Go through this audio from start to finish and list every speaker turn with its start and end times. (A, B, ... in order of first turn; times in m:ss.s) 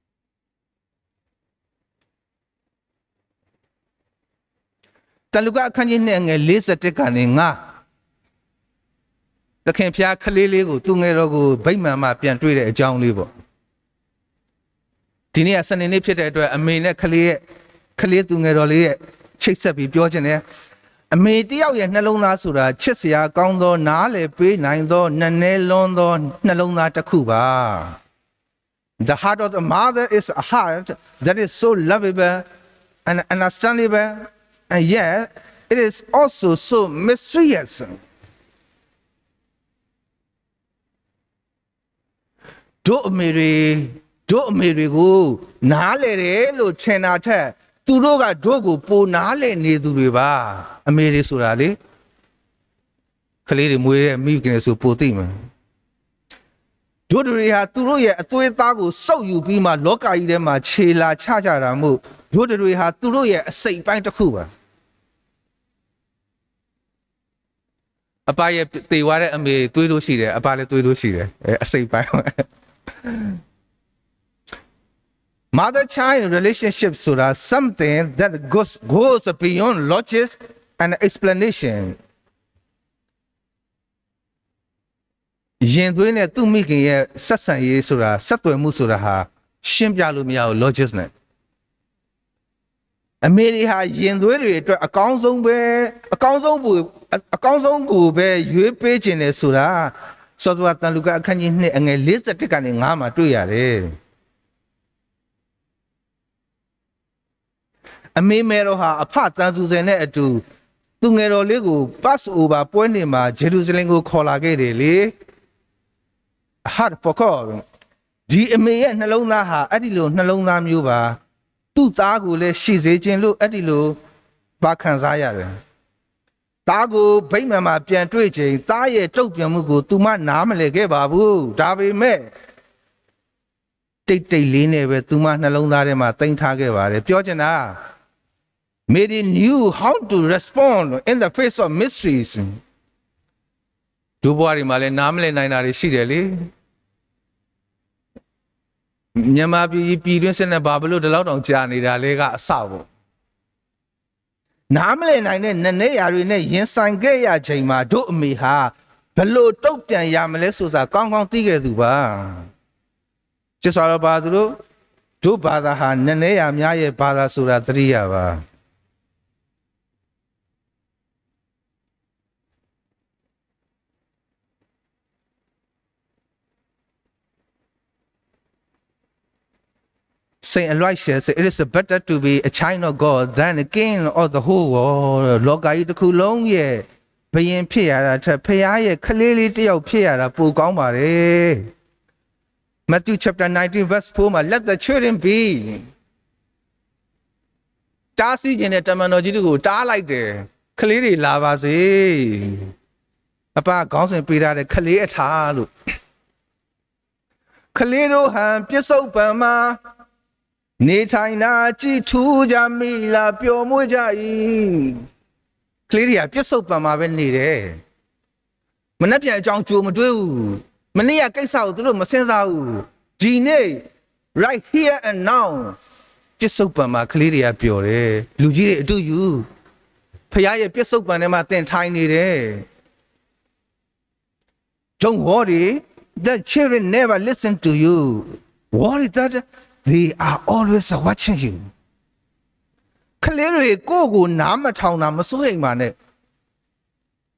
0:05.3-0:07.6 A
0:09.6-0:13.3 A
0:15.3-0:17.4 A
0:18.0-0:20.4 A
0:21.1-0:28.0 A
0:29.0-0:32.4 A
0:33.0-0:38.0 A
0:42.8-0:51.8 A
0:53.4-0:55.3 A
0:57.1-1:04.5 A
1:08.3-1:12.4 A
1:13.0-1:13.4 A
1:15.5-1:22.0 A
1:25.6-1:31.1 A
1:33.2-1:43.9 A
1:48.2-1:50.4 A
1:51.0-1:55.1 A
1:56.6-1:57.6 A
1:58.3-2:01.2 A
2:01.7-2:04.0 A
2:04.6-2:05.5 A
2:06.6-2:12.3 A
2:14.1-2:17.8 A
2:18.9-2:22.6 A
2:24.2-2:26.5 A
2:29.2-2:32.9 A
2:34.7-2:42.5 A
2:43.6-2:44.6 A
2:45.2-2:48.4 A
3:00.4-3:11.7 A
3:12.9-3:15.9 A
3:18.2-3:22.7 A
3:23.5-3:25.7 A
3:27.7-3:29.8 A
3:30.8-3:35.0 A
3:35.9-3:37.8 A
3:39.0-3:45.8 A
3:46.4-3:49.5 A
3:50.3-3:52.6 A
3:55.0-4:01.7 A
4:03.2-4:05.9 A